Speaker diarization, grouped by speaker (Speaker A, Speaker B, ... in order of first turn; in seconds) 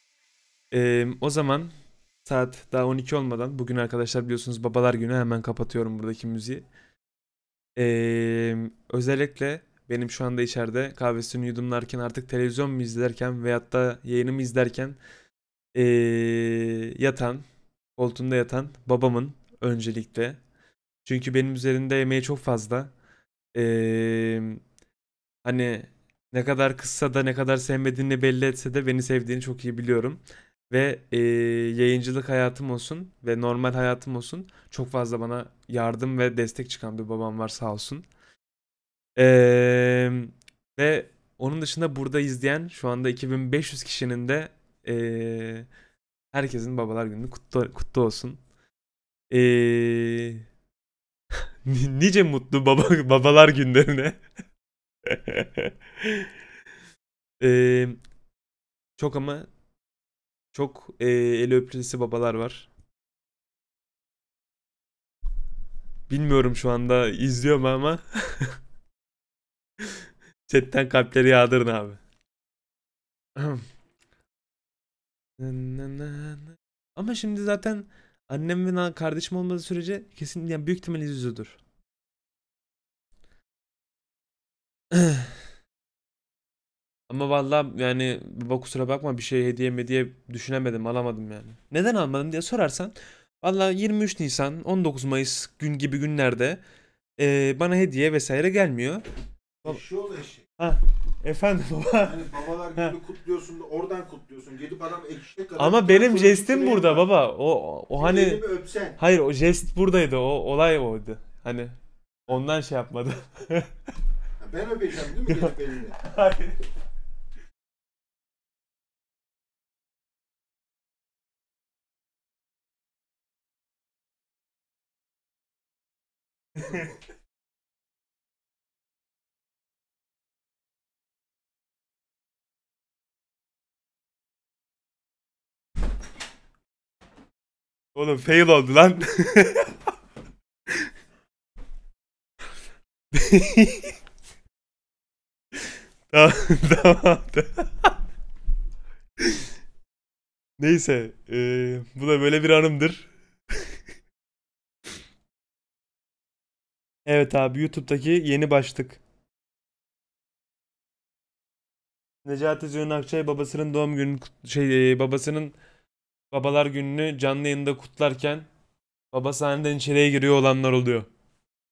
Speaker A: 0.7-1.7, 2.2-6.6, 7.8-15.0, 15.7-17.4, 17.9-20.4, 21.0-22.9, 23.5-24.6, 25.4-38.0, 39.2-45.7, 46.3-48.4, 49.3-50.4, 51.6-54.2, 55.0-56.2, 57.4-58.0, 59.0-59.5, 60.5-62.7, 66.1-68.5, 70.5-72.0, 73.3-73.6, 75.4-81.6, 84.9-85.3, 87.1-96.6, 97.2-99.0, 100.6-102.2, 105.6-108.4, 109.0-111.7, 112.3-113.7, 115.2-116.6, 137.9-139.7, 143.1-143.9, 146.1-147.9, 150.6-153.1, 157.1-159.0, 162.2-165.6, 166.3-168.5, 169.1-171.1
Speaker B: 99.6-100.5, 102.0-107.0, 108.0-109.0, 114.4-116.0